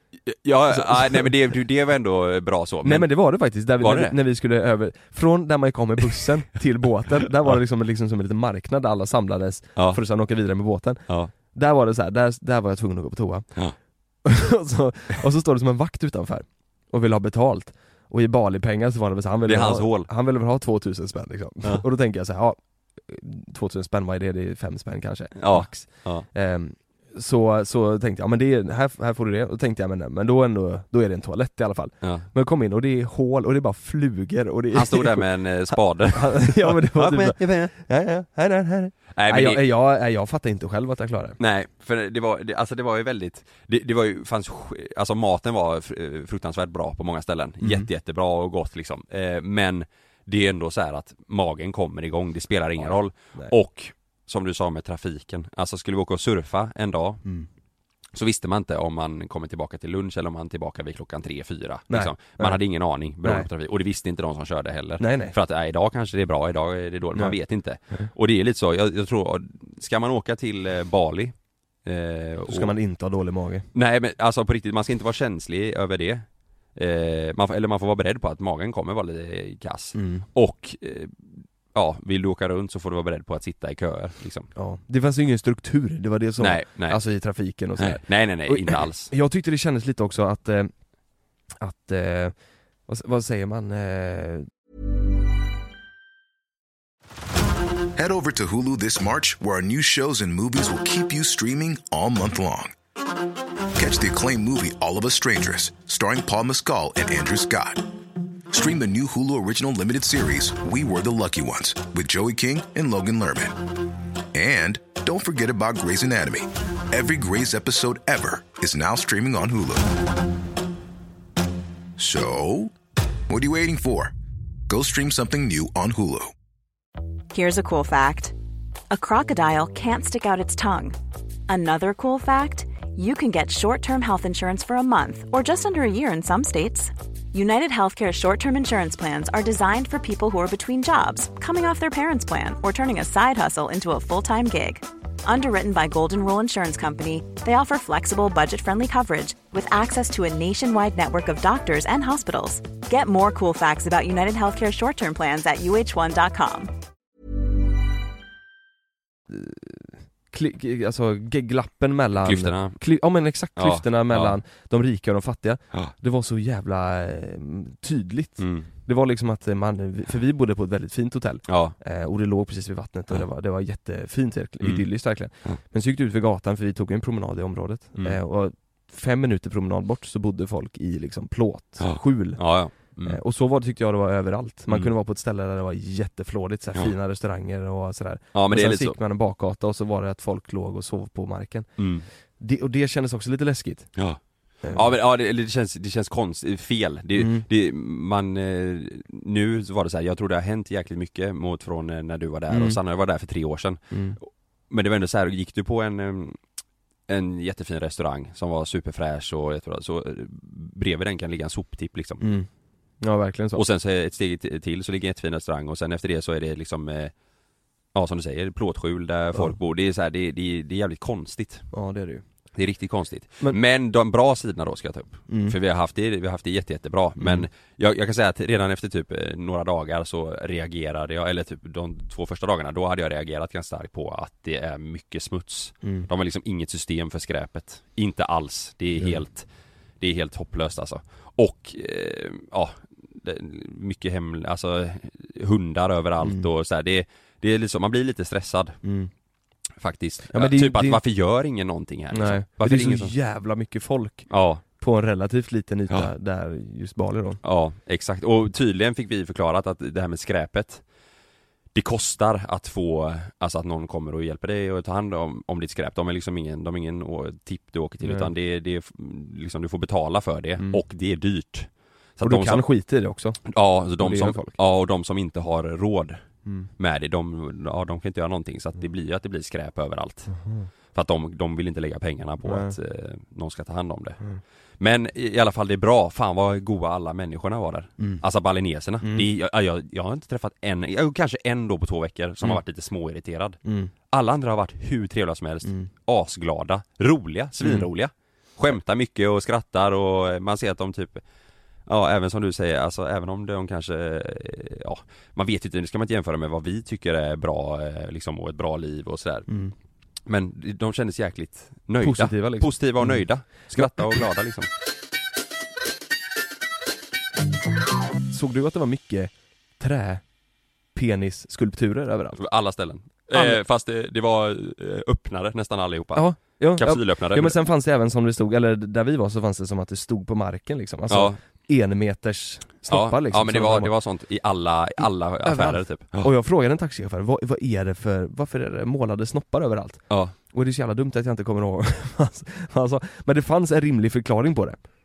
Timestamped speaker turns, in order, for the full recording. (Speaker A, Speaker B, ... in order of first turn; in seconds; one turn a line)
Speaker A: 0.3-4.2
Speaker B: 0.7-1.3
Speaker B: 2.8-41.4
Speaker A: 9.8-10.0
Speaker A: 19.5-20.1
Speaker A: 25.4-26.3
Speaker A: 32.0-32.3
Speaker A: 34.7-37.7
Speaker A: 39.1-39.6
Speaker A: 41.4-57.3
Speaker B: 47.6-47.9
Speaker B: 52.8-53.5
Speaker A: 58.1-72.7
Speaker B: 61.9-62.6
Speaker B: 65.0-65.3
Speaker B: 72.5-73.7
Speaker A: 73.7-84.5
Speaker B: 79.9-80.3
Speaker B: 84.5-94.5
Speaker A: 86.4-89.1
Speaker C: 98.0-102.7
Speaker C: 103.8-107.9
Speaker C: 108.5-113.7
Speaker C: 114.3-120.0
Speaker C: 122.0-122.7
Speaker C: 123.3-124.1
Speaker C: 124.7-126.3
Speaker D: 127.3-128.3
Speaker D: 128.9-156.7
Speaker B: 159.3-194.0
Speaker A: 162.2-162.8
Speaker A: 163.6-164.4
Speaker A: 168.4-168.7
Speaker A: 171.5-171.8
Speaker A: 174.6-175.6
Speaker A: 181.8-183.2
Speaker A: 188.3-189.0
Speaker A: 191.8-192.1
Speaker A: 194.0-206.4
Speaker B: 194.6-194.9
Speaker B: 197.2-197.4
Speaker B: 202.5-202.8
Speaker B: 203.9-204.2
Speaker A: 207.1-212.3
Speaker B: 212.2-213.6
Speaker A: 213.6-217.1
Speaker A: 217.9-221.7
Speaker B: 221.7-222.2
Speaker A: 222.6-239.5
Speaker B: 225.3-225.6
Speaker B: 227.2-227.5
Speaker B: 235.8-236.1
Speaker B: 239.0-239.2
Speaker A: 240.0-248.8
Speaker B: 246.2-246.5
Speaker B: 248.8-249.1
Speaker A: 249.8-253.1
Speaker B: 250.3-251.0
Speaker B: 252.1-257.4
Speaker A: 254.3-254.6
Speaker A: 257.4-260.8
Speaker A: 261.7-272.6
Speaker B: 268.0-268.3
Speaker B: 272.2-273.5
Speaker A: 273.4-284.2
Speaker B: 274.0-274.6
Speaker B: 280.3-280.7
Speaker B: 282.4-282.7
Speaker A: 284.8-301.2
Speaker B: 288.0-288.2
Speaker B: 289.0-289.3
Speaker B: 293.6-293.9
Speaker B: 295.6-295.9
Speaker B: 297.6-297.9
Speaker A: 301.9-309.5
Speaker B: 309.5-309.7
Speaker A: 310.3-314.7
Speaker B: 312.0-314.2
Speaker B: 318.3-320.3
Speaker B: 320.9-322.4
Speaker A: 322.4-327.6
Speaker B: 323.3-323.6
Speaker B: 326.1-333.9
Speaker A: 331.1-331.4
Speaker A: 332.9-336.3
Speaker B: 335.0-344.8